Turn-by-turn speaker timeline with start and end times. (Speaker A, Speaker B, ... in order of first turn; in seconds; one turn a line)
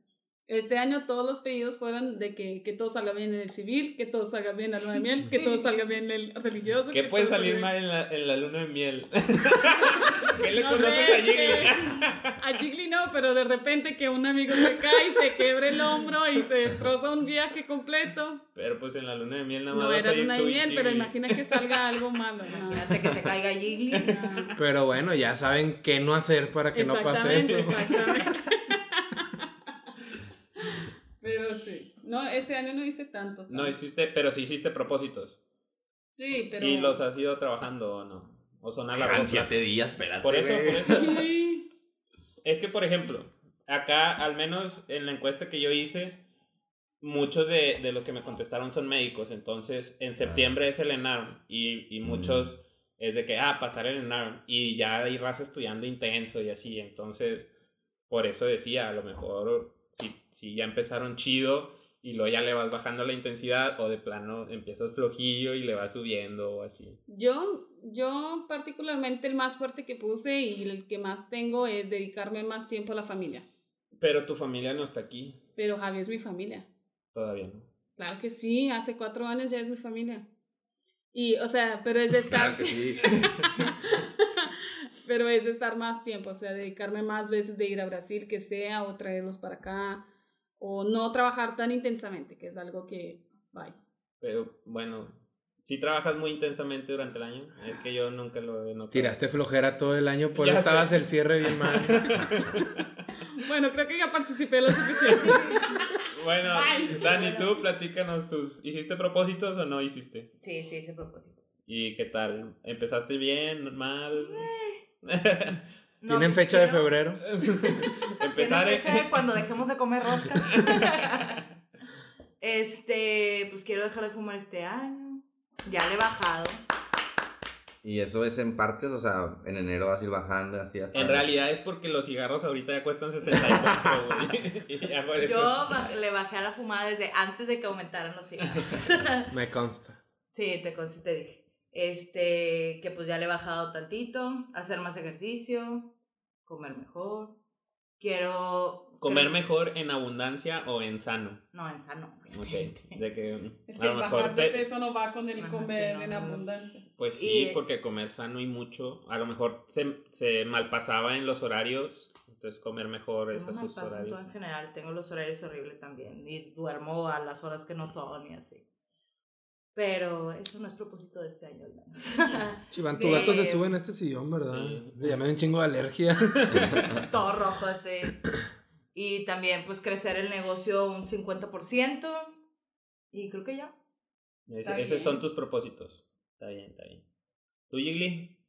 Speaker A: 0.5-7.7
Speaker B: 5.3-5.6
Speaker C: 6.9-12.3
Speaker A: 9.8-18.4
Speaker C: 18.5-21.8
Speaker A: 19.7-22.9
Speaker B: 22.5-24.1
Speaker A: 23.9-24.6
Speaker C: 23.9-24.4
Speaker D: 24.6-27.9
Speaker A: 26.7-29.5
Speaker C: 27.2-27.9
Speaker A: 30.7-33.8
Speaker C: 33.5-35.4
Speaker A: 36.1-37.0
Speaker C: 36.6-39.5
Speaker E: 38.9-41.2
Speaker C: 40.2-41.2
Speaker A: 40.9-41.6
Speaker C: 42.4-46.2
Speaker C: 47.0-57.5
Speaker E: 50.2-50.5
Speaker E: 52.0-52.5
Speaker C: 58.1-67.0
Speaker A: 67.1-73.5
Speaker C: 74.0-75.4
Speaker A: 75.6-76.7
Speaker C: 77.1-77.7
Speaker A: 78.0-80.2
Speaker A: 81.1-90.0
Speaker E: 82.2-83.4
Speaker A: 90.6-93.8
Speaker C: 94.2-99.2
Speaker D: 98.8-102.2
Speaker C: 100.3-102.9
Speaker A: 103.3-107.1
Speaker C: 104.9-105.4
Speaker B: 105.2-105.7
Speaker C: 106.1-110.3
Speaker B: 106.8-107.6
Speaker B: 110.4-111.6
Speaker C: 111.7-114.5
Speaker B: 114.1-114.8
Speaker C: 115.0-115.6
Speaker B: 116.0-116.9
Speaker D: 116.1-117.2
Speaker C: 117.2-119.1
Speaker B: 117.7-121.4
Speaker C: 120.3-120.9
Speaker B: 122.4-126.6
Speaker E: 127.8-131.3
Speaker C: 130.9-135.7
Speaker B: 135.2-139.3
Speaker D: 139.3-140.0
Speaker B: 140.3-145.9
Speaker B: 146.4-147.4
Speaker B: 148.0-149.5
Speaker C: 149.0-151.4
Speaker B: 151.5-153.0
Speaker C: 152.3-154.7
Speaker A: 153.7-156.8
Speaker B: 155.4-156.4
Speaker C: 157.0-164.2
Speaker B: 157.2-157.6
Speaker B: 163.3-168.6
Speaker B: 169.7-173.7
Speaker D: 172.7-176.8
Speaker A: 173.0-173.4
Speaker C: 174.4-175.1
Speaker C: 176.3-176.9
Speaker E: 176.5-177.0
Speaker B: 177.0-178.3
Speaker B: 178.9-182.4
Speaker B: 183.1-183.7
Speaker C: 184.5-187.0
Speaker A: 184.6-185.2
Speaker C: 187.7-188.3